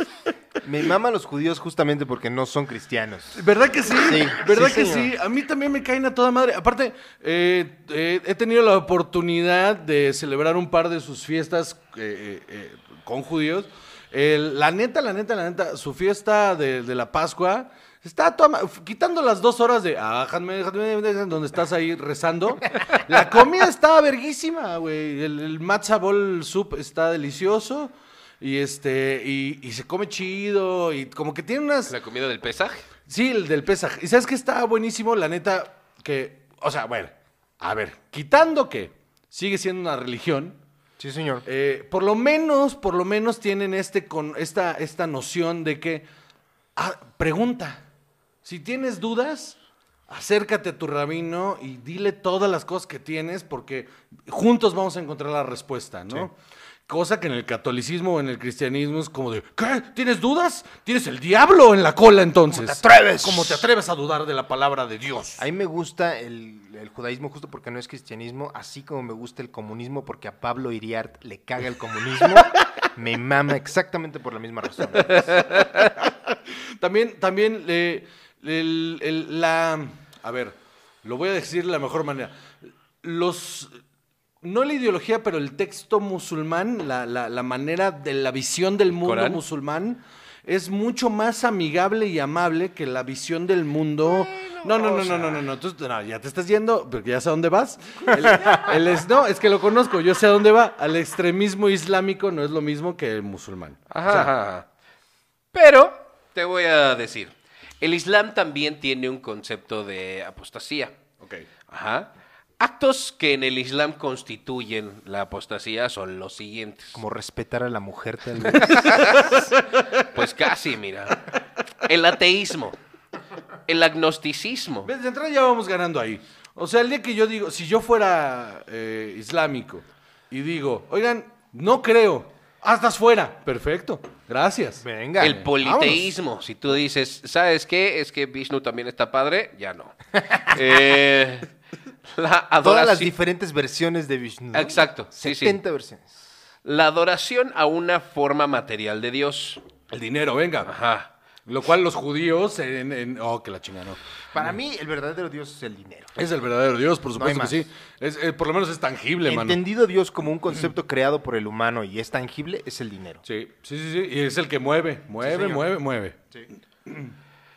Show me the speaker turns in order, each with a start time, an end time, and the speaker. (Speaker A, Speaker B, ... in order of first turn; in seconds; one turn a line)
Speaker A: 0.6-5.1
Speaker B: 3.4-31.9
Speaker C: 31.9-32.9
Speaker B: 33.1-40.6
Speaker A: 41.0-41.5
Speaker B: 41.5-46.0
Speaker B: 46.8-47.8
Speaker B: 48.5-49.6
Speaker B: 50.1-56.4
Speaker B: 56.9-65.4
Speaker A: 62.5-63.7
Speaker A: 65.4-75.5
Speaker C: 75.4-75.9
Speaker B: 76.5-82.5
Speaker B: 83.0-83.7
Speaker B: 84.4-104.3
Speaker C: 89.0-89.4
Speaker C: 94.1-95.3
Speaker A: 95.1-95.3
Speaker A: 98.3-98.6
Speaker C: 103.9-104.7
Speaker C: 105.5-111.0
Speaker B: 111.2-111.5
Speaker C: 111.7-117.0
Speaker A: 117.0-119.0
Speaker C: 118.6-119.5
Speaker B: 119.6-120.0
Speaker C: 120.1-121.3
Speaker C: 121.8-122.8
Speaker C: 123.7-124.9
Speaker B: 124.8-136.1
Speaker A: 134.8-135.4
Speaker C: 135.2-141.5
Speaker C: 142.1-143.1
Speaker A: 142.6-146.1
Speaker C: 144.5-145.6
Speaker C: 146.7-149.6
Speaker B: 149.9-150.7
Speaker C: 150.7-151.1
Speaker B: 151.5-154.4
Speaker A: 154.3-156.2
Speaker B: 156.2-159.6
Speaker A: 157.2-157.7
Speaker A: 159.3-163.2
Speaker B: 163.2-166.2
Speaker A: 165.2-165.7
Speaker B: 166.9-167.1